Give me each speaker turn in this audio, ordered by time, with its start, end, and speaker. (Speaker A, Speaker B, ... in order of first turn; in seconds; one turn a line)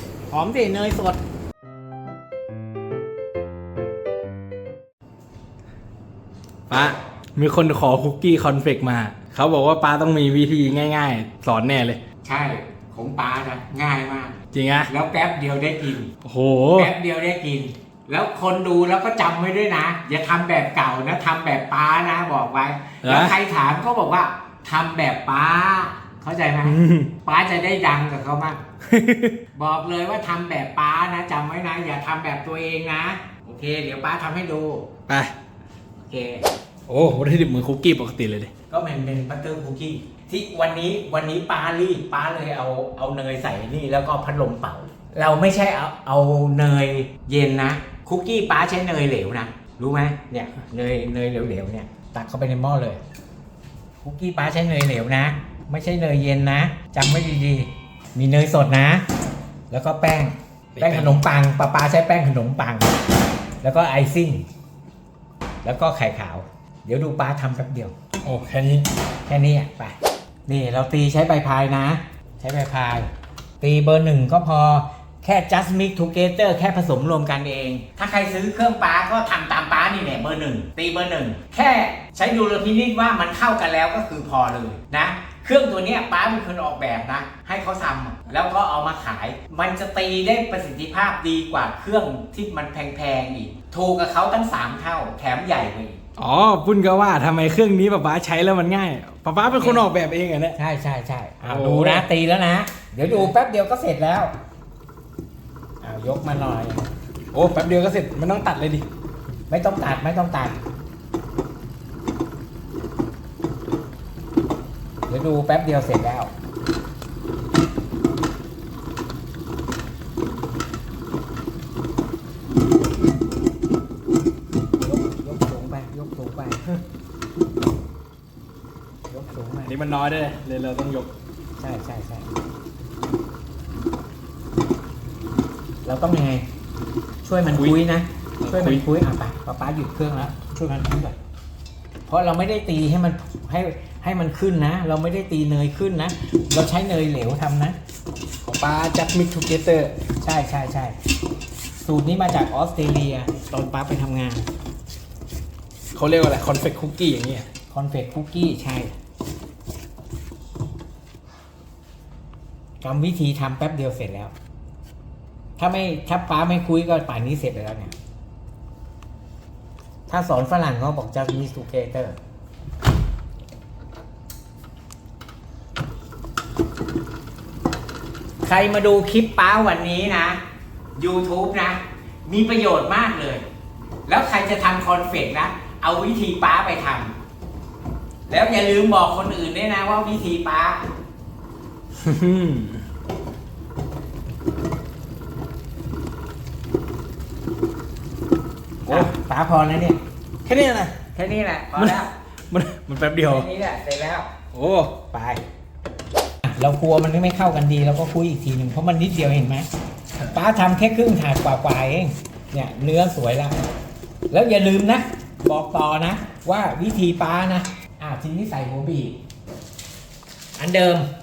Speaker A: 0.3-1.2
Speaker B: 6.7-12.0
Speaker A: 12.2-14.4
Speaker B: 14.5-14.9
Speaker A: 14.9-16.1
Speaker B: 16.2-16.9
Speaker A: 16.8-28.6
Speaker B: 23.0-23.4
Speaker B: 26.6-27.1
Speaker B: 28.9-29.4
Speaker A: 29.6-34.9
Speaker B: 35.1-35.3
Speaker A: 36.0-36.5
Speaker B: 36.9-38.5
Speaker A: 38.7-53.0
Speaker A: 54.0-59.0
Speaker A: 59.7-63.0
Speaker B: 60.8-61.2
Speaker A: 63.6-64.5
Speaker A: 65.6-67.9
Speaker B: 68.2-68.9
Speaker A: 69.3-70.0
Speaker A: 70.5-73.1
Speaker A: 73.6-96.0
Speaker B: 96.2-100.6
Speaker A: 99.5-99.8
Speaker A: 100.6-104.3
Speaker B: 101.5-102.1
Speaker A: 105.8-106.9
Speaker B: 107.3-108.8
Speaker A: 109.5-110.6
Speaker A: 115.1-116.3
Speaker A: 124.8-126.6
Speaker A: 129.1-129.7
Speaker B: 129.7-131.1
Speaker A: 131.6-132.3
Speaker A: 135.8-136.5
Speaker A: 137.2-141.2
Speaker B: 137.5-137.8
Speaker B: 138.4-138.8
Speaker A: 142.1-147.8
Speaker B: 148.4-149.9
Speaker A: 150.2-151.0
Speaker A: 151.8-154.5
Speaker B: 155.9-157.5
Speaker A: 157.7-158.9
Speaker A: 162.8-164.3
Speaker A: 165.6-167.9
Speaker A: 170.1-172.2
Speaker A: 178.4-180.4
Speaker A: 181.0-183.4
Speaker A: 184.1-187.2
Speaker A: 188.3-190.8
Speaker B: 192.0-192.8
Speaker B: 198.8-199.1
Speaker A: 198.9-200.0
Speaker B: 200.4-201.0
Speaker A: 201.2-202.1
Speaker B: 201.8-203.5
Speaker A: 203.3-204.3
Speaker B: 204.5-205.4
Speaker A: 206.4-209.7
Speaker A: 210.3-213.6
Speaker A: 214.3-219.2
Speaker A: 220.6-221.1